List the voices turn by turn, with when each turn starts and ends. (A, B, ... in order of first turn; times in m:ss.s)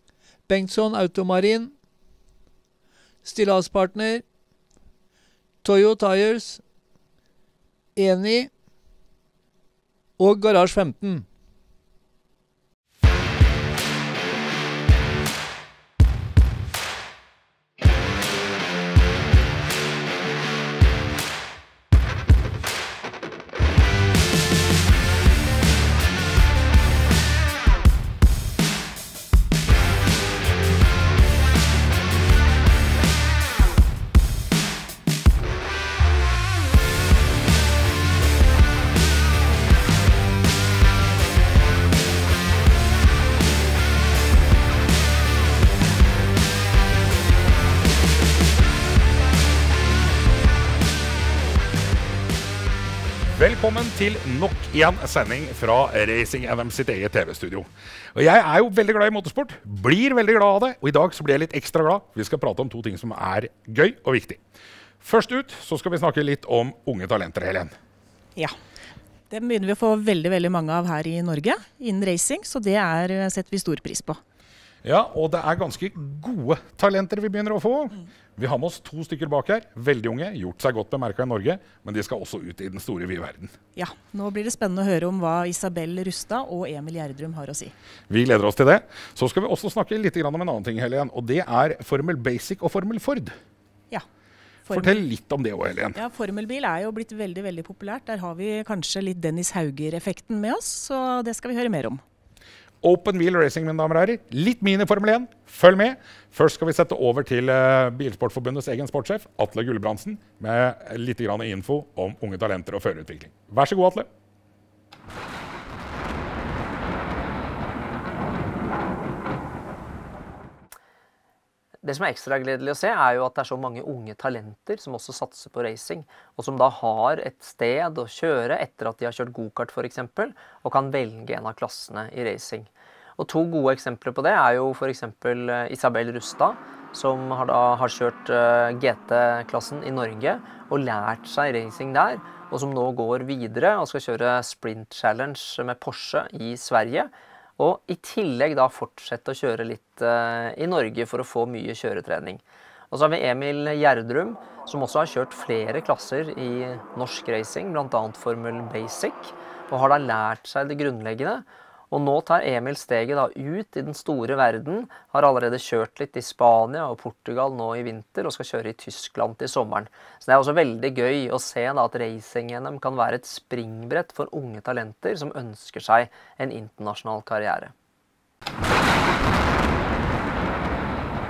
0:00.5-0:01.7 A
0:03.2-0:04.2 A
0:05.6-0:06.6 A
0:08.0-0:08.5 A
0:10.2-0:11.2 A
0:53.3-1:04.4 B
1:05.0-1:07.7 B
1:09.3-1:14.2 C
1:14.8-1:23.5 B
1:23.8-1:27.7 C
1:28.1-1:33.3 B
1:34.7-1:35.1 C
1:34.7-1:36.0 B
1:35.9-1:42.0 C
1:42.8-1:54.1 B
2:01.8-2:57.7 D